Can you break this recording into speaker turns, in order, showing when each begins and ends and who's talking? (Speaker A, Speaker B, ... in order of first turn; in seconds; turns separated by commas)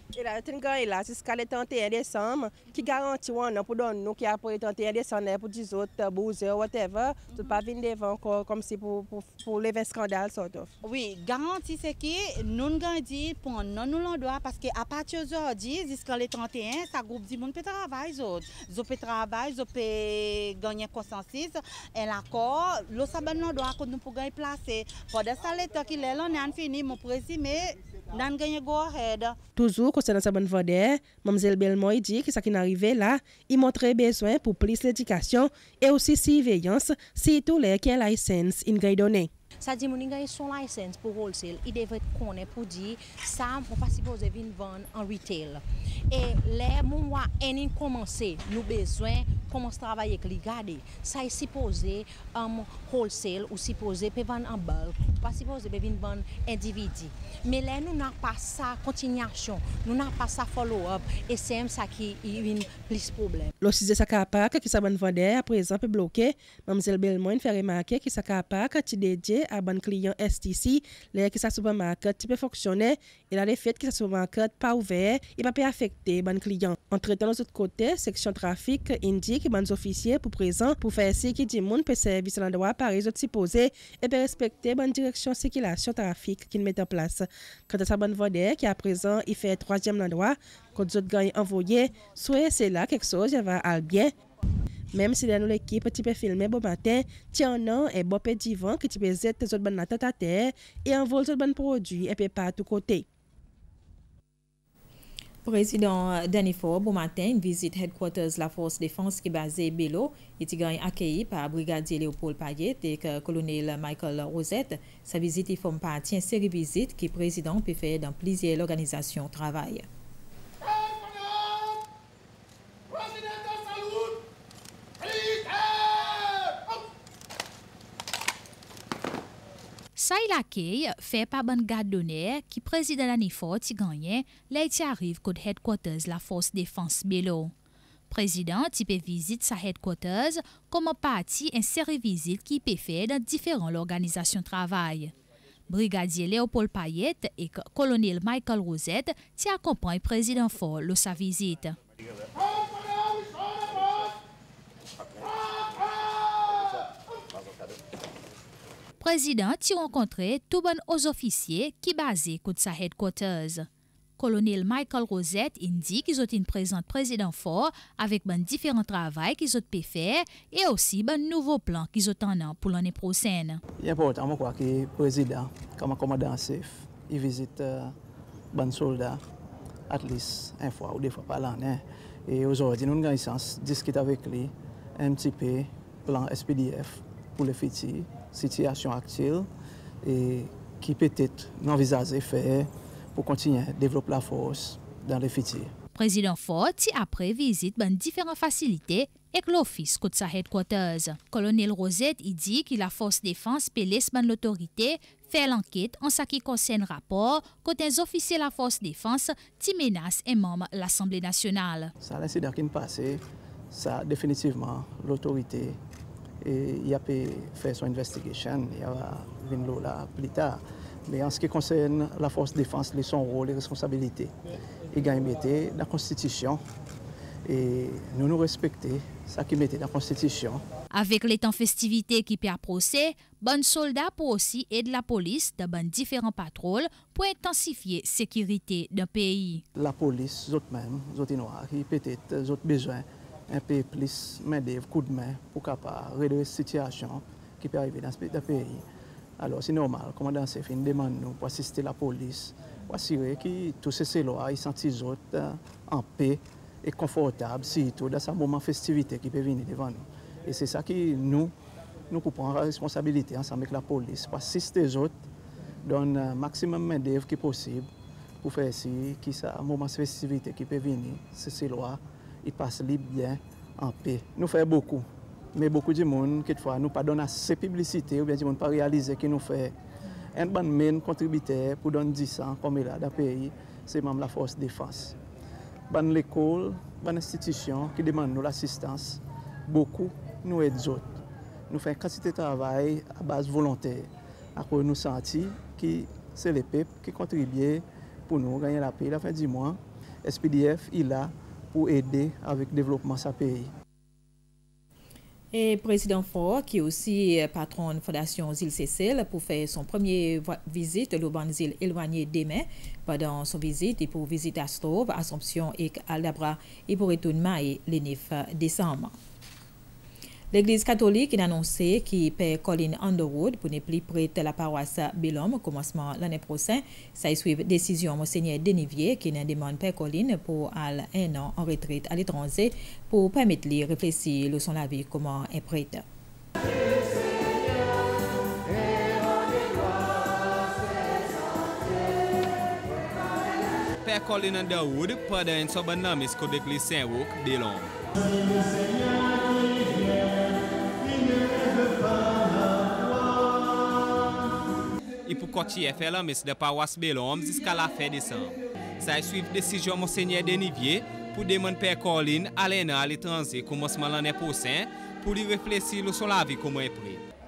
Speaker A: 0.1-10.7, Speaker B: 10.8-29.4, Speaker A: 29.6-39.3, Speaker C: 39.6-63.5, Speaker A: 63.6-94.1, Speaker A: 94.9-103.1, Speaker D: 105.5-119.9, Speaker E: 130.0-137.5, Speaker E: 138.1-145.1, Speaker E: 145.7-151.8, Speaker E: 159.0-173.6, Speaker F: 173.8-177.9, Speaker F: 178.5-179.2, Speaker F: 179.9-189.5, Speaker F: 190.0-195.7, Speaker E: 195.9-211.9, Speaker F: 212.0-215.8, Speaker F: 216.4-224.3, Speaker F: 224.9-226.6, Speaker F: 227.5-230.6, Speaker E: 230.9-239.6, Speaker F: 239.8-248.8, Speaker F: 249.4-261.5, Speaker F: 262.1-265.1, Speaker F: 265.8-267.9, Speaker F: 268.4-279.8, Speaker F: 280.3-285.1, Speaker F: 285.9-303.7, Speaker D: 305.5-319.1, Speaker D: 320.5-336.0, Speaker G: 344.0-347.9, Speaker G: 355.3-367.2